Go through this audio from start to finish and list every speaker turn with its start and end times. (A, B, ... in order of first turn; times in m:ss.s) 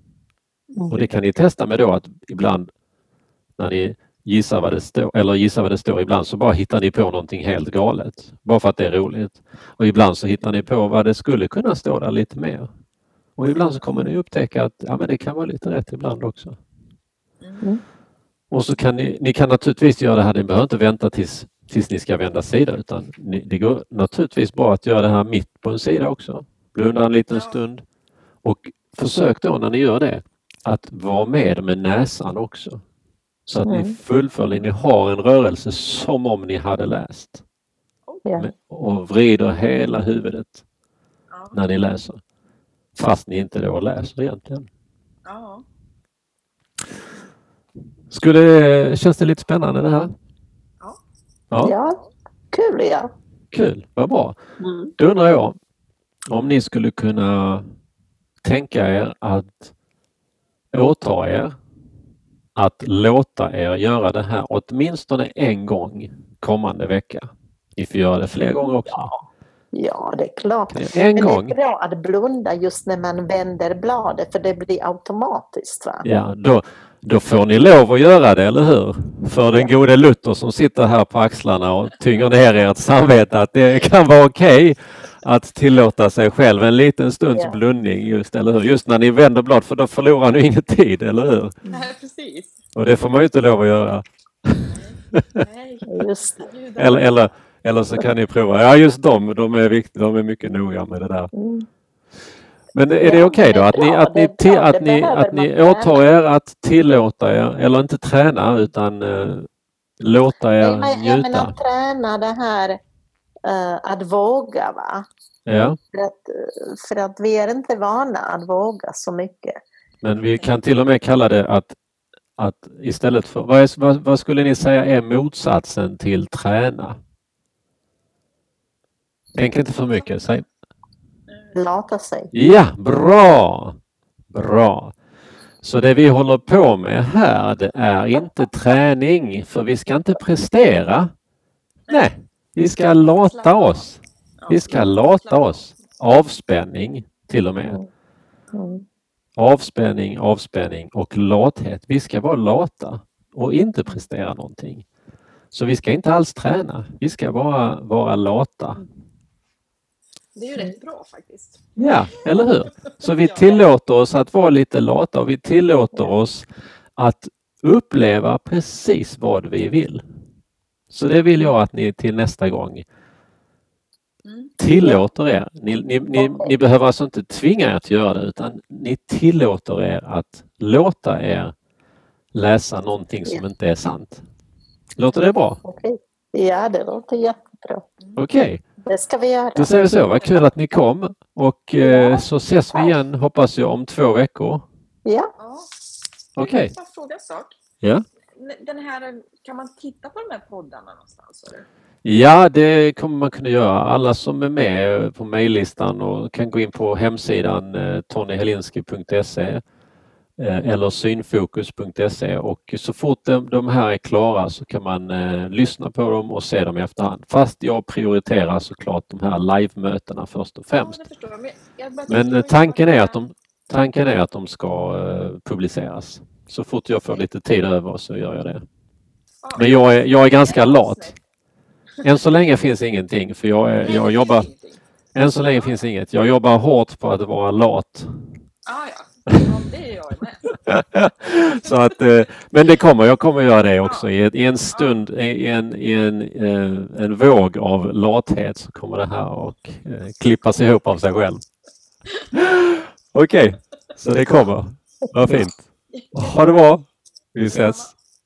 0:00.9-0:02.7 A
0:03.6-0:12.7 A
0:13.4-0:16.6 A
0:17.4-0:17.7 B
0:18.5-0:27.8 A
0:27.3-0:27.6 B
0:28.4-0:32.8 A
0:33.5-0:37.4 A
0:33.6-0:34.0 C
0:38.4-0:40.6 A
0:41.3-0:41.6 B
0:41.5-0:42.2 A
0:42.9-0:44.7 A
0:45.2-0:45.6 B
0:48.1-0:50.1 A
0:51.6-0:52.0 C
0:52.5-0:53.1 C
0:53.5-0:54.4 A
0:54.6-0:54.9 C
0:55.0-0:55.6 A
0:56.3-0:57.6 A
0:58.4-0:59.7 A
1:00.7-1:01.5 A
1:02.6-1:09.1 A
1:08.9-1:09.2 C
1:09.7-1:16.0 C
1:10.7-1:11.6 A
1:16.0-1:31.6 A
1:31.7-1:32.6 B
1:32.7-1:35.2 A
1:34.7-1:37.3 B
1:35.9-1:36.5 C
1:36.8-1:41.3 A
1:41.3-1:41.6 C
1:42.7-1:49.5 A
1:43.0-1:46.0 C
1:50.0-1:51.5 A
1:50.6-1:52.8 C
1:53.5-1:55.0 C
1:55.4-1:55.8 A
1:55.8-1:59.6 C
2:00.0-2:01.8 A
2:02.4-2:07.0 A
2:09.3-2:10.4 A
2:11.3-2:11.6 B
2:11.5-2:12.3 C
2:12.3-2:13.8 A
2:14.3-2:14.9 A
2:15.6-2:21.1 A
2:21.9-2:27.8 A
2:23.1-2:25.8 B
2:28.5-2:28.8 C
2:29.4-2:34.8 A
2:35.5-2:38.8 A
2:40.3-2:41.6 B
2:41.8-2:50.0 A
2:42.1-2:42.4 B
2:43.0-2:43.7 B
2:50.9-2:52.8 A
2:54.2-2:54.6 B
2:54.6-3:01.5 A
2:56.1-2:56.5 C
3:02.3-3:04.2 A
3:05.0-3:05.6 A
3:05.6-3:07.8 C
3:08.2-3:08.6 A
3:08.9-3:09.7 C
3:09.6-3:14.6 A
3:11.8-3:13.0 C
3:15.0-3:15.3 C
3:15.4-3:15.7 B
3:16.4-3:16.7 A
3:16.4-3:17.6 B
3:18.3-3:21.6 B
3:22.0-3:29.6 A
3:30.4-3:41.0 A
3:40.7-3:43.2 B
3:42.1-3:48.6 A
3:49.4-3:51.2 B
3:49.5-3:51.1 A
3:52.0-3:54.5 A
3:53.8-3:54.8 B
3:55.1-3:58.1 A
3:55.4-3:55.8 B
3:58.6-4:00.6 B
4:00.6-4:11.4 A
4:01.2-4:01.7 B
4:03.8-4:04.1 B
4:04.7-4:05.0 B
4:12.3-4:17.9 A
4:15.9-4:16.5 B
4:17.5-4:17.9 B